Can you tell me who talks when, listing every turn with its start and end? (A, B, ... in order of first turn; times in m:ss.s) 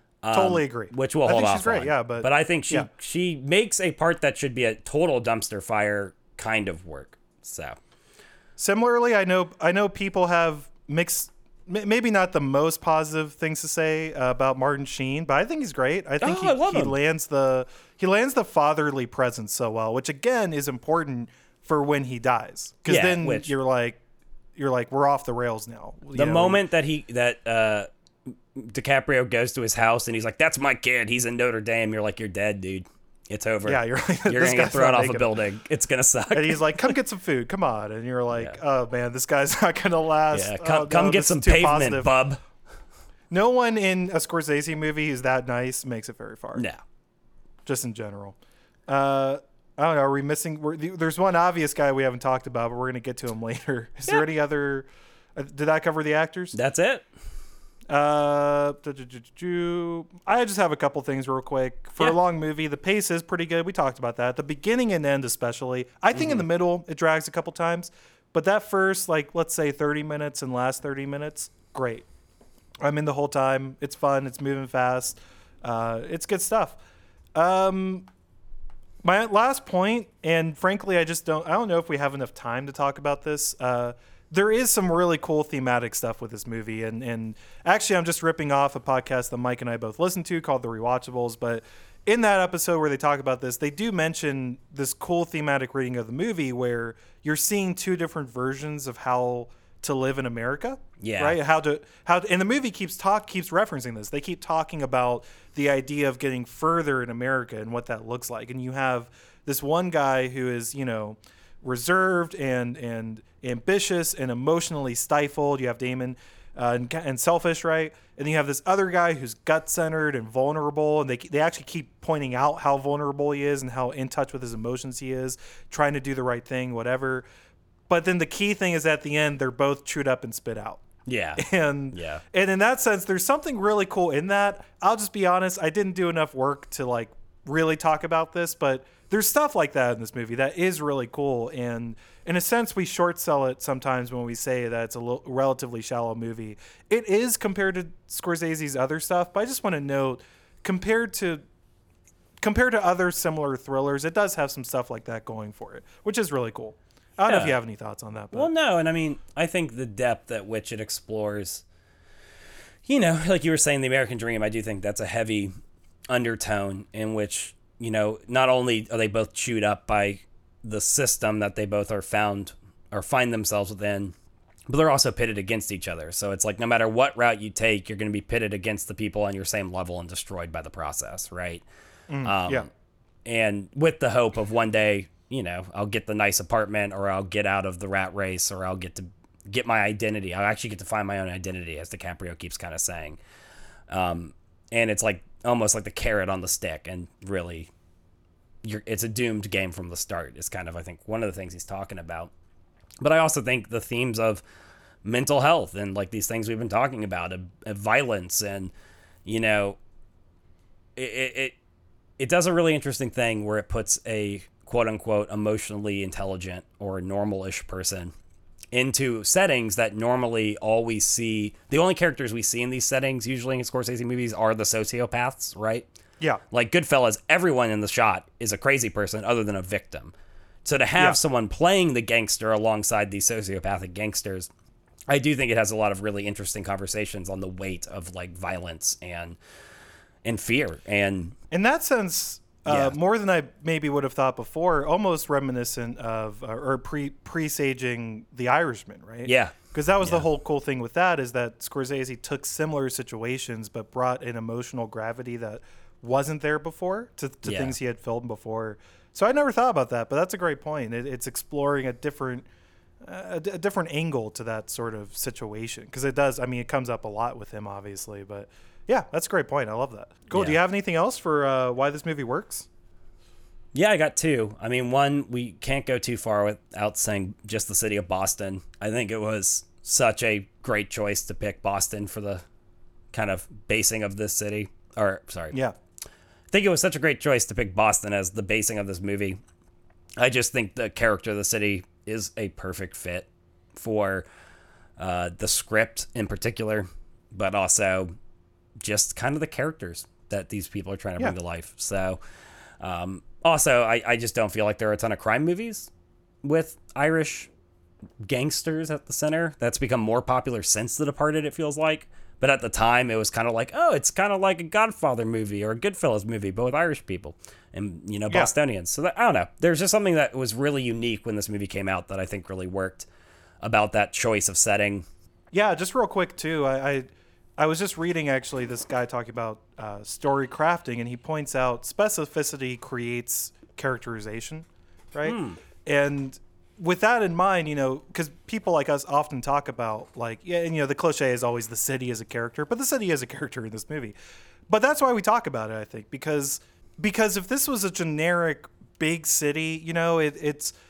0:00.2-0:07.8 A
0:00.3-0:02.9 B
0:08.6-0:24.0 B
0:16.2-0:17.0 A
0:22.9-0:23.5 A
0:24.6-0:26.6 B
0:26.1-0:27.9 A
0:28.5-0:37.0 A
0:33.6-0:35.4 B
0:36.3-0:42.1 B
0:40.3-0:42.4 A
0:43.3-0:46.6 B
0:46.6-0:46.8 A
0:47.6-0:48.4 B
0:48.9-0:56.6 B
0:56.5-0:57.0 A
0:57.9-1:12.0 B
1:06.2-1:06.4 A
1:12.8-1:16.8 B
1:17.4-1:18.1 B
1:19.0-2:07.2 B
1:41.0-1:41.4 A
2:07.9-2:10.8 B
2:11.0-2:12.2 A
2:11.4-2:31.4 B
2:32.4-2:38.5 B
2:37.2-2:37.6 A
2:38.3-2:41.6 A
2:42.8-2:45.5 A
2:46.1-2:54.1 A
2:54.7-3:01.6 A
3:02.1-3:02.7 B
3:02.2-3:02.7 A
3:03.2-3:13.2 A
3:13.9-3:17.7 A
3:18.6-3:22.3 A
3:23.0-3:24.4 A
3:25.0-3:28.7 A
3:29.2-3:29.8 A
3:31.0-3:31.6 A
3:32.2-3:38.1 A
3:38.7-3:45.9 A
3:46.5-3:50.1 A
3:50.6-3:54.5 A
3:55.1-3:59.4 A
4:00.2-4:01.4 A
4:01.5-4:22.5 B
4:02.7-4:03.0 A
4:09.2-4:10.2 A
4:17.4-4:17.8 A
4:23.0-4:32.7 B
4:33.7-4:42.4 A
4:43.1-4:45.6 A
4:46.5-4:49.4 A
4:50.2-4:54.2 A
4:55.0-4:58.1 A
4:58.8-5:02.2 A
5:02.8-5:05.9 A
5:06.4-5:07.5 A
5:08.2-5:23.1 A
5:23.6-5:25.1 A
5:25.5-5:27.1 B
5:27.6-5:44.1 B
5:35.2-5:35.6 A
5:44.7-5:50.7 B